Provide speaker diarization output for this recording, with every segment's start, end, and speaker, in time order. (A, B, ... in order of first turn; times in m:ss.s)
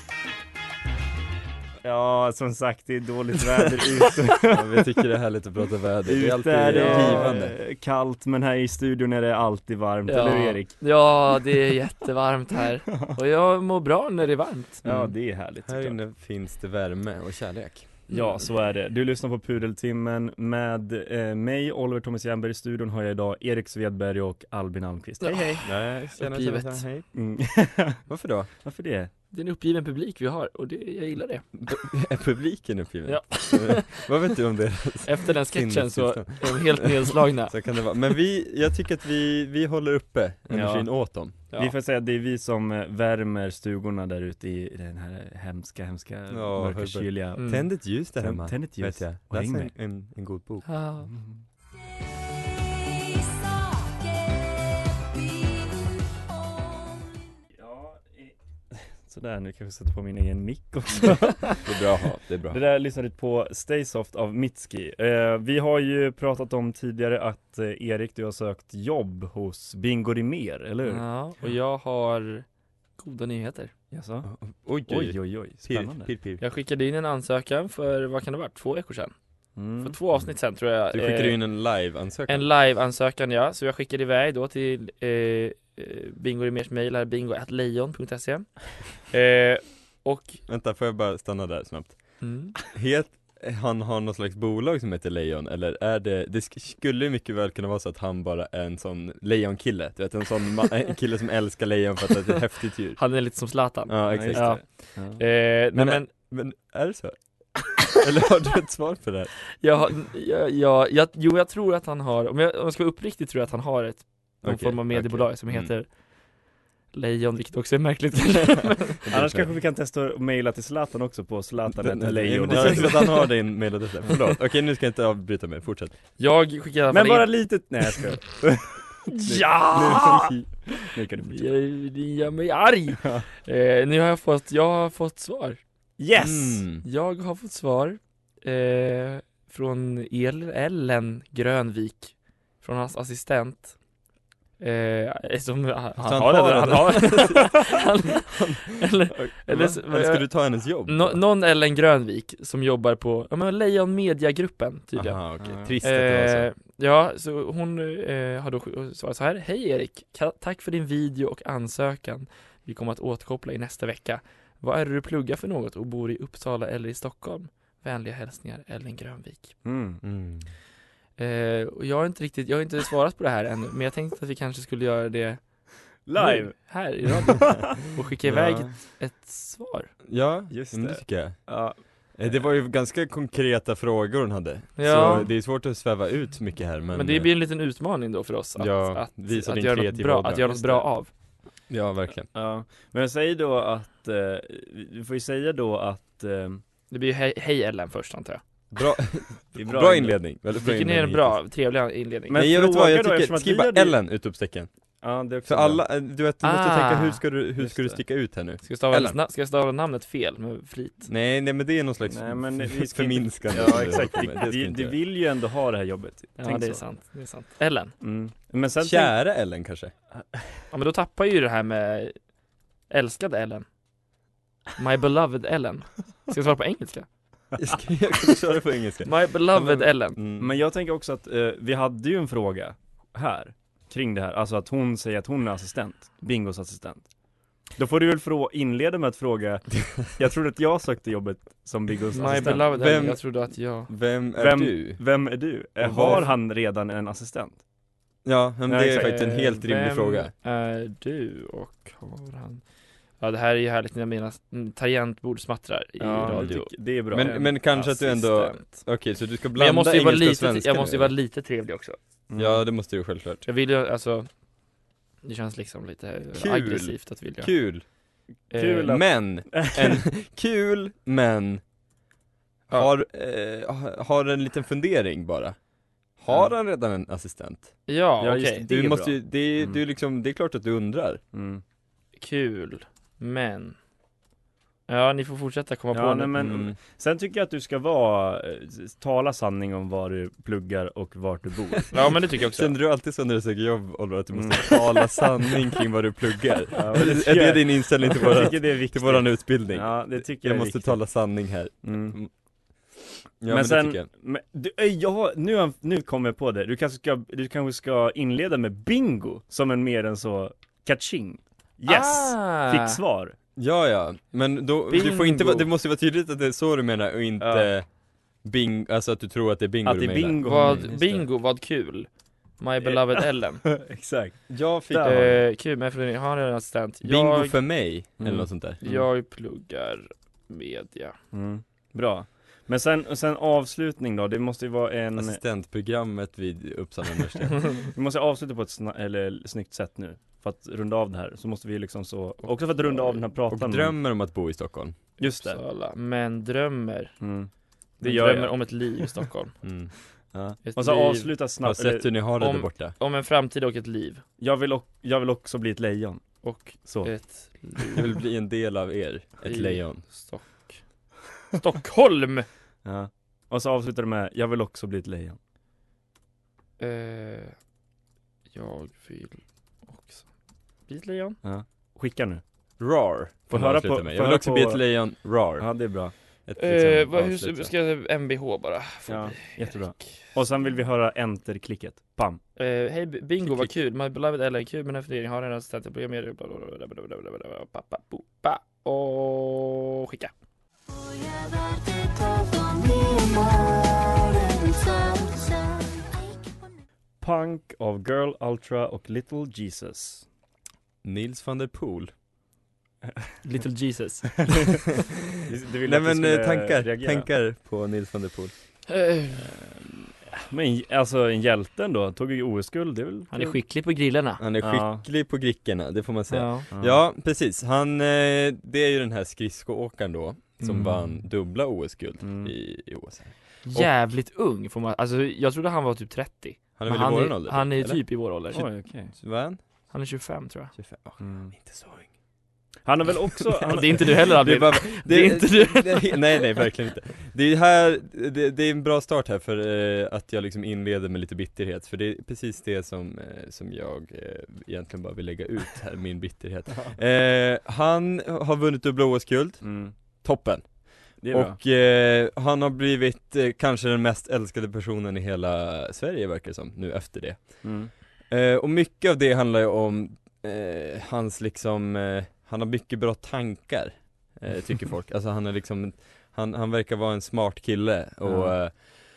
0:01.8-0:04.7 A
0:04.4-0:07.5 B
0:06.0-0:10.7 A
0:06.7-0:07.3 C
0:10.1-0:14.9 C
0:12.9-0:13.1 A
0:14.8-0:16.0 A
0:15.6-0:17.9 B
0:18.1-0:25.6 A
0:25.2-0:25.6 C
0:25.6-0:27.1 B
0:26.2-0:26.8 C
0:27.1-0:28.0 A
0:28.1-0:28.5 B
0:28.6-0:29.1 A
0:29.3-0:31.4 C
0:31.5-0:41.3 B
0:33.1-0:34.0 C
0:35.0-0:37.5 C
0:40.5-0:40.9 A
0:41.5-0:47.6 A
0:46.3-0:50.7 B
0:47.4-0:47.6 C
0:48.2-0:49.7 A
0:50.6-0:51.1 C
0:51.1-0:51.4 A
0:57.6-1:01.6 A
1:01.6-1:02.6 B
1:02.5-1:11.0 A
1:10.8-1:12.4 C
1:13.0-1:13.7 C
1:13.9-1:14.3 A
1:14.2-1:16.4 B
1:14.8-1:16.1 A
1:16.4-1:19.1 C
1:19.6-1:20.0 A
1:19.8-1:21.4 C
1:20.9-1:22.5 B
1:22.3-1:28.5 C
1:29.1-1:30.4 C
1:30.5-1:32.0 B
1:32.2-1:32.5 C
1:32.7-1:43.0 B
1:43.0-1:44.6 C
1:43.9-1:44.6 B
1:44.1-1:45.2 A
1:45.2-1:46.1 C
1:45.7-1:47.2 B
1:47.8-1:49.3 B
1:49.6-1:55.9 C
1:54.4-1:55.7 B
1:56.9-1:59.0 C
1:59.0-1:59.5 B
1:59.1-2:03.2 A
2:01.8-2:06.0 B
2:02.5-2:03.2 C
2:06.2-2:07.3 C
2:06.9-2:11.6 A
2:09.1-2:10.8 C
2:09.7-2:10.4 B
2:11.3-2:15.6 C
2:16.0-2:16.6 A
2:16.2-2:16.8 B
2:16.8-2:23.7 C
2:24.6-2:30.3 C
2:26.0-2:31.2 B
2:30.8-2:35.2 C
2:34.9-2:36.5 B
2:35.4-2:35.7 A
2:35.8-2:49.6 C
2:49.6-2:50.0 A
2:50.0-2:50.5 B
2:51.2-2:55.4 C
2:56.0-2:57.8 A
2:56.2-2:59.9 C
2:58.2-2:58.7 B
3:00.0-3:01.5 B
3:00.5-3:01.8 A
3:02.2-3:07.3 B
3:04.8-3:05.2 C
3:05.0-3:05.3 A
3:06.9-3:11.1 C
3:08.6-3:10.9 B
3:11.7-3:12.3 B
3:12.3-3:16.6 A
3:16.9-3:18.4 C
3:18.7-3:21.4 B
3:19.5-3:20.2 A
3:20.6-3:22.4 C
3:22.3-3:24.0 A
3:22.3-3:24.7 B
3:25.0-3:25.8 A
3:25.4-3:29.2 B
3:26.4-3:27.2 C
3:27.6-3:28.0 A
3:28.6-3:31.1 C
3:31.1-3:35.0 B
3:32.1-3:36.8 A
3:36.4-3:37.9 C
3:38.0-3:39.1 A
3:38.8-3:39.9 B
3:40.7-3:42.2 C
3:42.9-3:43.6 C
3:44.8-3:47.1 C
3:47.6-3:50.5 B
3:49.0-3:50.2 C
3:50.4-3:57.1 A
3:57.7-4:02.7 A
4:02.1-4:03.9 C
4:02.2-4:05.0 B
4:04.4-4:07.6 A
4:05.8-4:06.3 B
4:08.2-4:10.3 B
4:08.7-4:09.4 A
4:09.0-4:12.6 C
4:13.2-4:18.7 C
4:16.0-4:17.4 A
4:16.3-4:21.1 B
4:19.5-4:22.0 C
4:22.3-4:22.6 A
4:22.3-4:23.4 B
4:23.4-4:24.3 C
4:25.2-4:27.5 C
4:26.3-4:27.8 B
4:28.5-4:28.9 C
4:28.5-4:30.0 A
4:28.8-4:31.6 B
4:32.7-4:35.6 B
4:36.2-4:37.7 B
4:37.9-4:38.6 C
4:38.2-4:39.8 A
4:38.5-4:41.2 B
4:41.3-4:41.6 A
4:42.2-4:43.8 C
4:44.9-4:46.4 C
4:45.9-4:51.9 A
4:46.4-4:46.7 B
4:51.9-4:52.7 C
4:52.4-5:02.3 B
4:54.3-4:55.2 A
4:56.7-5:01.0 A
5:01.8-5:02.2 A
5:03.4-5:04.1 B
5:03.5-5:13.3 A
5:11.9-5:13.0 C
5:13.6-5:17.8 B
5:14.9-5:15.6 A
5:17.4-5:17.7 A
5:18.4-5:20.9 B
5:19.8-5:21.2 A
5:20.4-5:23.6 C
5:22.8-5:25.4 A
5:24.5-5:25.3 B
5:25.0-5:27.6 C
5:27.0-5:28.8 B
5:28.2-5:29.1 A
5:28.8-5:31.1 C
5:31.3-5:35.4 A
5:35.2-5:37.6 B
5:37.8-5:43.9 A
5:42.4-5:43.2 C
5:43.5-5:45.0 B
5:45.2-5:45.6 A
5:45.2-5:47.1 C
5:47.2-5:47.5 A
5:48.0-5:49.0 A
5:48.0-5:49.5 C
5:49.6-5:49.9 B
5:50.3-5:52.1 A
5:50.6-5:51.3 C
5:51.6-5:52.9 B
5:52.4-5:54.2 C
5:54.4-5:56.2 A
5:56.4-5:58.1 C
5:56.8-5:57.1 A
5:57.8-6:00.0 B
5:59.4-6:00.8 C
6:01.6-6:02.4 C
6:02.8-6:05.4 A
6:06.8-6:07.5 C
6:08.5-6:10.3 C
6:10.9-6:11.4 C
6:11.4-6:12.4 A
6:12.8-6:15.7 B
6:13.5-6:15.0 A
6:15.6-6:16.1 A
6:16.5-6:17.7 B
6:16.6-6:19.8 C
6:19.1-6:22.4 A
6:22.6-6:30.3 C
6:23.4-6:23.7 A
6:37.2-6:40.2 A
6:41.0-6:42.1 B
6:43.4-6:44.5 C
6:44.5-6:44.8 A
6:45.4-6:47.3 A
6:45.8-6:48.5 B
6:48.9-6:49.4 C
6:49.3-6:53.6 A
6:53.3-6:54.4 C
6:54.4-7:03.9 B
6:54.6-6:55.0 A
6:56.3-6:56.6 C
6:56.7-6:57.0 A
7:00.6-7:01.0 C
7:02.2-7:02.5 A
7:03.6-7:08.6 C
7:06.8-7:08.0 B
7:08.5-7:09.1 A
7:09.1-7:09.6 B
7:09.9-7:10.7 C
7:10.7-7:12.1 B
7:11.2-7:11.5 A
7:12.8-7:14.2 A
7:13.6-7:29.7 B
7:13.7-7:16.2 C
7:29.6-7:29.9 A
7:30.2-7:30.7 B
7:31.2-7:31.6 A
7:31.3-7:37.6 B
7:37.6-7:37.9 A
7:38.3-7:48.8 B
7:48.2-7:48.5 A